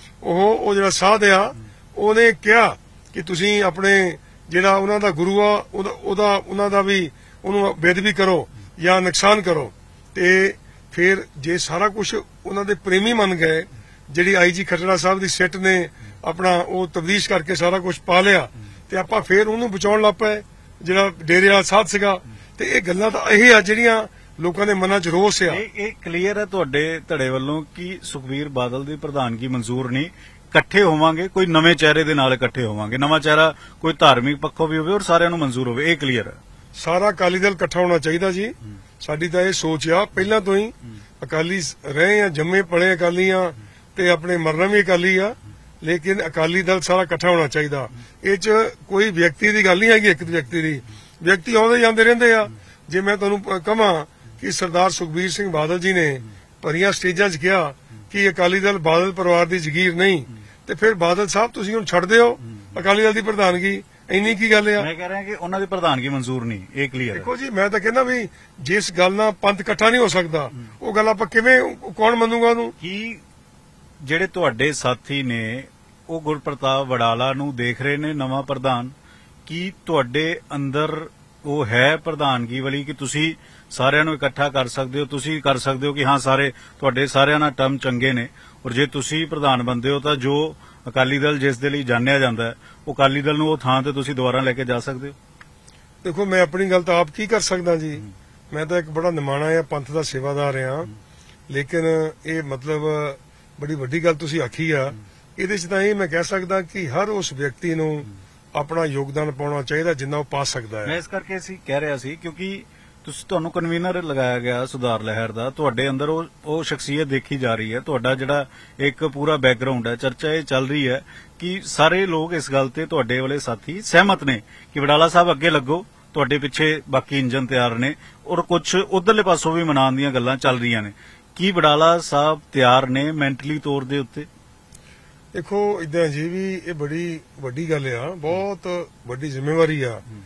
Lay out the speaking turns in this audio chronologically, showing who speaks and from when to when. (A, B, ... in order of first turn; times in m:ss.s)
0:00.2-0:25.6 A
0:25.5-0:36.4 B
0:36.8-1:04.9 A
1:04.8-1:07.3 B
1:07.1-1:12.7 A
1:12.8-1:13.2 B
1:14.0-1:18.9 B
1:19.4-1:35.1 B
1:36.0-1:40.9 A
1:41.5-1:51.0 A
1:50.8-2:14.3 B
2:15.3-2:20.0 A